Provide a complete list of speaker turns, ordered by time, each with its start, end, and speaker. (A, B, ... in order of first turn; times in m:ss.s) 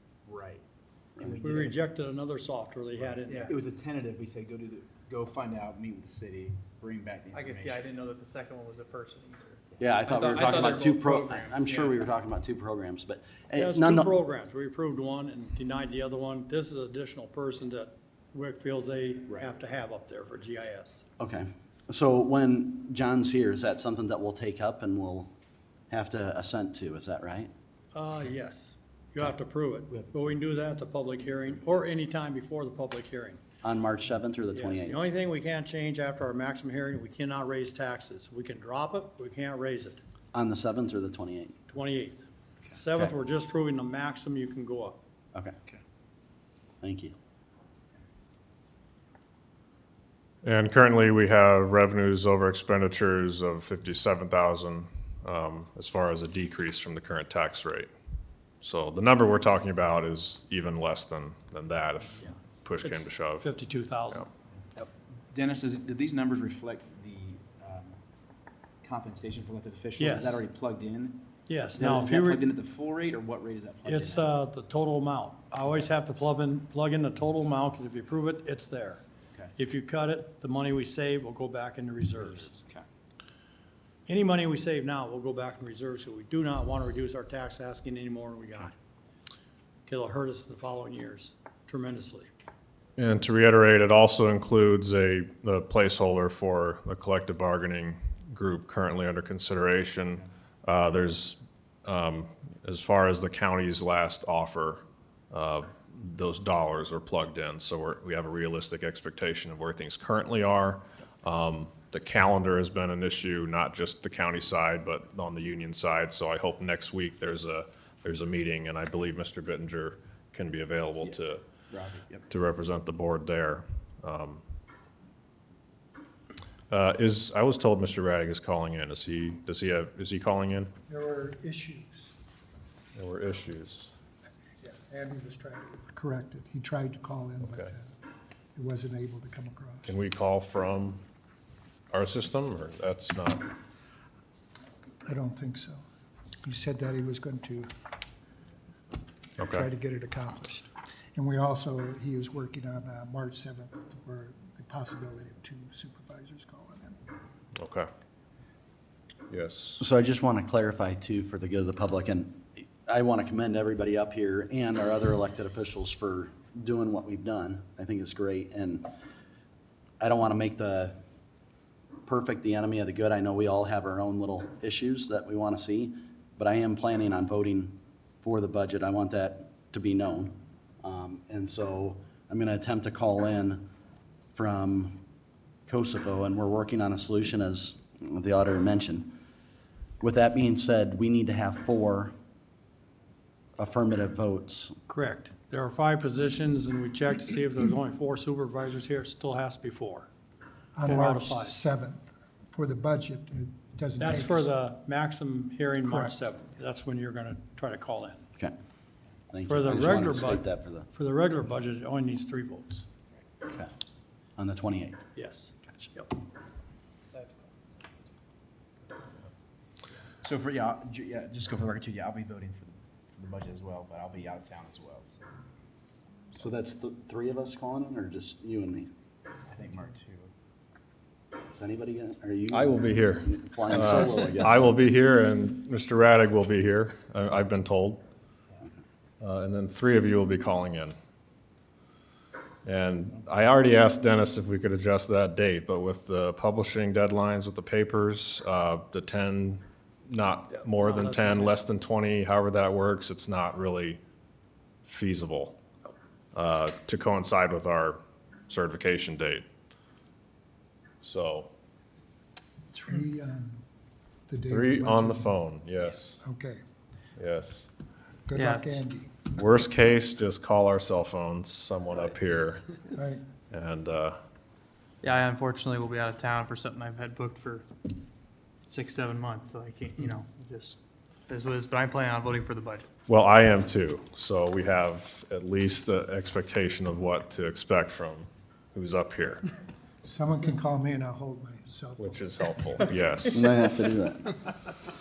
0:00.3-0:00.6 A
0:01.2-0:01.8 A
0:01.3-0:03.6 B
0:03.4-0:07.9 A
0:07.3-0:12.1 C
0:09.7-0:10.7 A
0:09.8-0:14.2 D
0:13.6-0:21.0 B
0:21.2-0:25.3 D
0:25.9-0:27.5 D
0:27.9-0:33.4 B
0:29.9-0:30.3 A
0:33.6-0:35.0 D
0:34.5-0:40.0 B
0:40.3-0:41.6 D
0:41.7-0:45.0 B
0:46.8-0:47.2 D
0:50.4-0:57.9 E
0:58.6-1:03.5 E
1:02.8-1:04.3 B
1:04.8-1:08.0 A
1:08.8-1:14.3 A
1:10.0-1:10.4 B
1:11.5-1:12.5 B
1:13.8-1:19.0 B
1:19.6-1:22.5 B
1:22.2-1:22.9 A
1:24.1-1:28.8 B
1:29.9-1:32.3 B
1:33.0-2:01.4 E
2:01.0-2:02.3 A
2:02.3-2:04.4 E
2:06.7-2:10.7 E
2:10.9-2:12.2 F
2:13.0-2:13.9 E
2:14.6-2:17.9 F
2:17.4-2:17.7 E
2:18.6-2:19.9 F
2:19.9-2:21.0 E
2:21.9-2:23.5 E
2:25.0-2:25.8 F
2:26.4-2:27.7 F
2:29.4-2:29.7 E
2:29.4-2:37.0 F
2:37.6-2:37.9 E
2:39.3-2:39.8 E
2:39.8-2:48.9 D
2:50.0-2:51.0 D
2:52.1-3:03.6 D
3:04.3-3:05.0 D
3:05.7-3:09.1 D
3:10.0-3:12.1 D
3:13.6-3:14.8 D
3:14.9-3:20.1 B
3:20.8-3:24.5 F
3:20.8-3:21.6 B
3:24.0-3:28.2 B
3:25.8-3:26.2 F
3:29.3-3:30.9 D
3:29.5-3:32.9 B
3:34.4-3:35.1 D
3:35.2-3:36.1 B
3:35.6-3:35.9 D
3:37.1-3:37.9 C
3:40.2-3:45.2 A
3:46.4-3:48.9 D
3:49.5-3:50.3 A
3:51.5-3:54.7 D
3:52.5-3:58.0 E
3:59.2-4:01.0 E
4:02.6-4:14.0 E
4:10.6-4:11.6 B
4:14.8-4:15.6 E
4:16.3-4:19.4 E
4:21.0-4:21.5 E
4:22.7-4:23.6 F
4:24.3-4:25.4 F
4:24.5-4:26.2 E
4:26.2-4:26.6 F
4:27.2-4:27.7 E
4:28.3-4:29.2 F
4:28.3-4:28.8 C
4:29.4-4:32.8 E
4:32.9-4:33.2 F
4:33.5-4:34.2 E
4:35.0-4:37.6 C
4:38.7-4:42.9 C
4:43.1-4:49.4 E
4:50.0-4:52.5 F
4:52.0-4:53.4 E
4:53.3-4:54.4 D